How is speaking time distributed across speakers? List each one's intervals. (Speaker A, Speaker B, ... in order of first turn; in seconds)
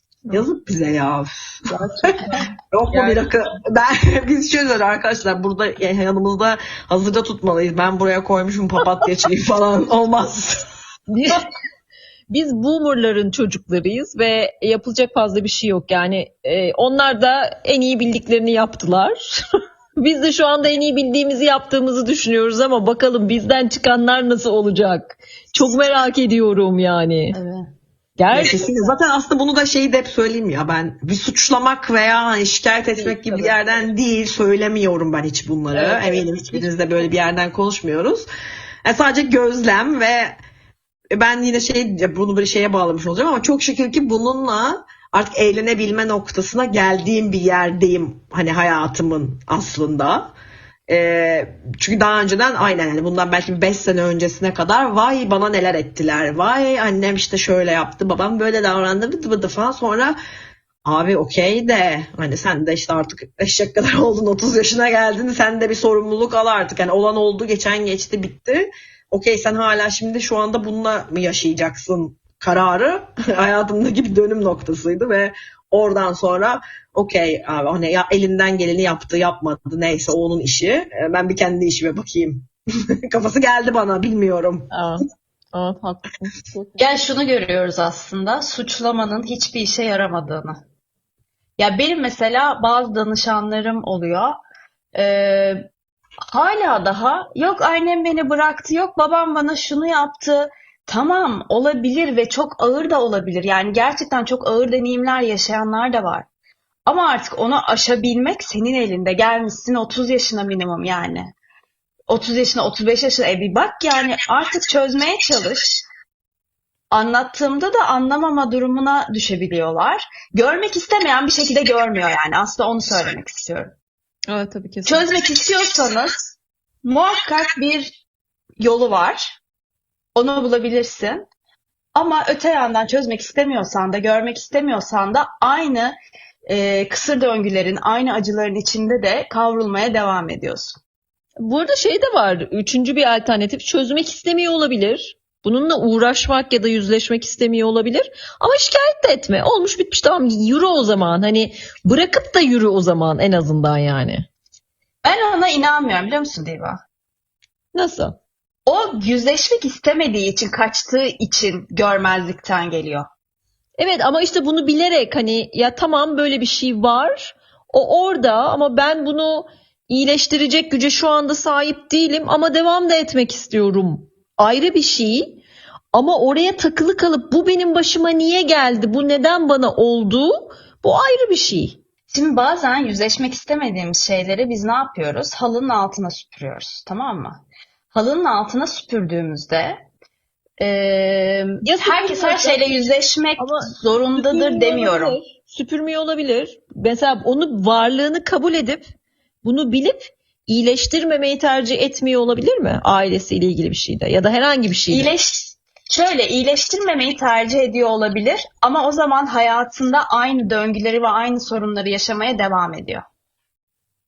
Speaker A: 0.3-1.8, 2.7-10.6, 28.3-38.2, 38.8-40.4, 41.1-50.3, 50.9-60.1, 60.8-82.5, 83.1-84.7
Speaker B: 1.7-3.2, 11.1-11.4, 12.3-19.4, 20.0-27.4, 28.2-28.6, 84.7-86.8, 124.3-125.1, 141.4-154.3, 157.7-158.2, 163.8-175.4, 175.9-181.8, 191.6-192.7, 193.4-198.9, 199.4-205.1
Speaker C: 27.3-27.7, 28.4-28.8, 33.0-33.6, 35.7-36.7, 86.8-90.6, 91.6-94.4, 94.9-95.6, 96.2-106.3, 106.8-111.3, 112.1-115.8, 116.9-123.7, 124.8-126.3, 126.8-128.0, 128.6-129.4, 130.1-131.2, 131.9-135.9, 136.5-140.8, 155.0-156.8, 158.7-163.1, 182.1-187.4, 187.9-189.8, 190.6-195.2, 204.9-213.0